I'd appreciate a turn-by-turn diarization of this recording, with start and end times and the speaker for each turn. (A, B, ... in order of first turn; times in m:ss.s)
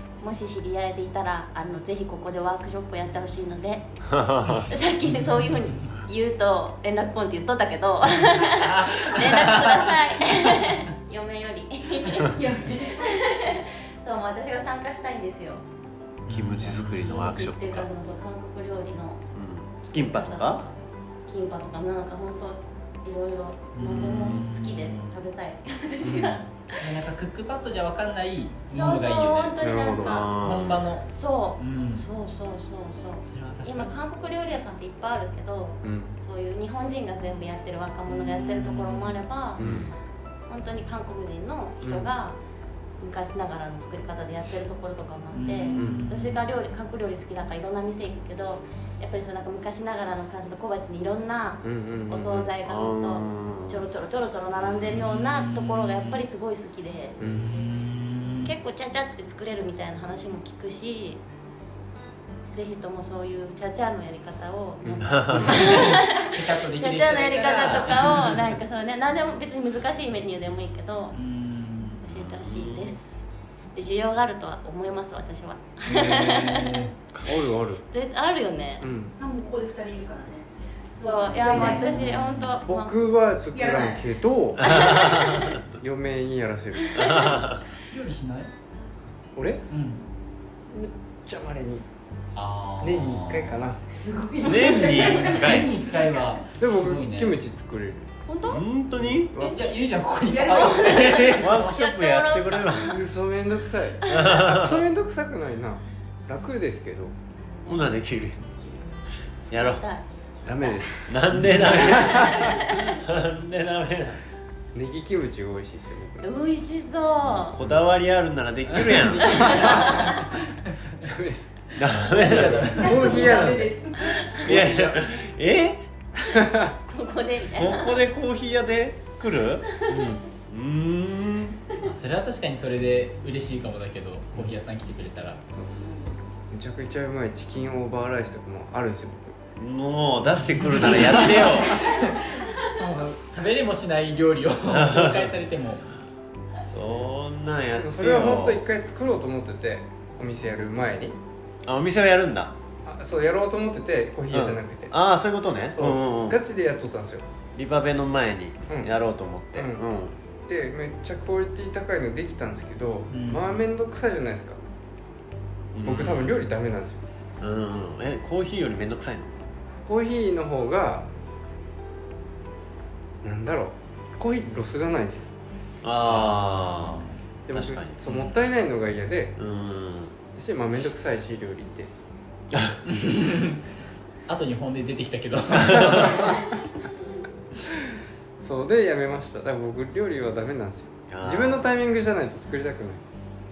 0:00.2-0:15.6 A
0:04.1-0:04.6 B
0:08.4-0:09.9 C
0:12.3-0:13.2 D
0:16.2-0:17.2 C
0:16.3-0:17.9 B
0:17.0-0:19.2 A
0:19.3-0:20.6 B
0:19.9-0:20.7 A
0:21.3-0:26.9 A
0:23.7-0:25.1 C
0:26.0-0:26.4 E
0:26.8-0:29.6 C
0:28.7-0:30.4 A
0:29.6-0:30.2 E
0:30.0-0:30.9 B
0:30.4-0:32.1 C
0:31.1-0:39.6 A
0:33.2-0:34.0 C
0:35.8-0:36.1 E
0:38.1-0:39.2 C
0:39.6-0:39.9 E
0:39.6-0:39.9 B
0:40.5-0:42.4 A
0:41.8-0:42.1 E
0:43.0-0:57.2 A
0:45.3-0:46.4 C
0:45.8-0:46.0 E
0:51.6-0:52.5 E
0:52.5-0:53.9 B
0:54.6-0:54.9 B
0:54.9-0:56.2 C
0:57.2-0:57.5 E
0:57.2-0:58.5 C
0:58.4-1:01.2 A
1:02.5-1:11.2 A
1:04.8-1:05.3 E
1:05.0-1:05.8 B
1:05.4-1:08.3 C
1:07.1-1:08.0 D
1:11.1-1:12.0 C
1:12.0-1:13.2 A
1:12.1-1:13.0 B
1:13.7-1:16.8 A
1:15.9-1:16.9 C
1:15.9-1:16.3 E
1:17.1-1:17.8 E
1:17.9-1:18.9 A
1:18.8-1:19.1 E
1:19.2-1:22.1 D
1:21.0-1:22.9 A
1:21.4-1:22.6 C
1:22.6-1:27.3 E
1:23.5-1:24.0 D
1:24.6-1:25.6 B
1:24.7-1:25.2 A
1:26.9-1:27.3 A
1:26.9-1:27.6 B
1:27.8-1:28.5 C
1:29.3-1:29.6 E
1:29.7-1:30.0 C
1:30.7-1:31.8 E
1:32.3-1:33.6 C
1:32.8-1:33.8 E
1:33.9-1:36.2 D
1:34.4-1:35.9 B
1:35.1-1:37.4 C
1:36.6-1:38.2 E
1:38.2-1:38.6 A
1:38.4-1:39.3 B
1:39.3-1:39.6 E
1:39.3-1:41.8 C
1:40.3-1:41.2 D
1:40.4-1:42.8 A
1:41.4-1:43.0 B
1:42.8-1:47.2 E
1:44.0-1:44.8 B
1:47.6-1:48.6 B
1:49.4-1:50.0 A
1:49.5-1:49.8 B
1:50.4-1:52.5 E
1:51.0-1:54.2 B
1:51.9-1:53.0 A
1:54.7-1:56.3 E
1:56.2-1:57.6 A
1:57.5-1:59.8 B
1:58.7-2:00.9 C
1:59.2-2:00.3 A
2:01.0-2:03.8 E
2:01.7-2:03.7 B
2:02.0-2:03.2 C
2:02.7-2:04.2 D
2:04.2-2:06.4 B
2:04.3-2:05.0 E
2:06.3-2:06.7 E
2:06.9-2:08.0 A
2:07.5-2:09.7 B
2:09.8-2:10.1 A
2:09.9-2:10.2 E
2:10.5-2:11.6 B
2:11.8-2:15.4 C
2:15.5-2:19.4 E
2:19.6-2:21.9 B
2:20.5-2:25.8 C
2:24.7-2:25.3 B
2:26.7-2:28.6 B
2:26.7-2:27.1 E
2:27.8-2:31.2 E
2:31.6-2:32.5 B
2:32.8-2:34.9 E
2:34.3-2:36.4 B
2:35.7-2:37.3 E
2:37.6-2:40.1 B
2:39.5-2:39.8 E
2:40.4-2:44.6 E
2:43.1-2:43.6 C
2:45.7-2:46.3 B
2:45.8-2:47.0 E
2:47.4-2:49.5 B
2:49.8-2:51.1 E
2:53.2-2:55.3 E
2:55.8-2:58.0 B
2:56.0-2:57.2 C
2:57.5-2:59.3 E
2:59.4-3:00.2 B
3:00.3-3:01.9 E
3:02.5-3:02.8 B
3:02.8-3:03.7 C
3:04.3-3:06.5 C
3:08.4-3:13.0 E
3:11.1-3:11.7 B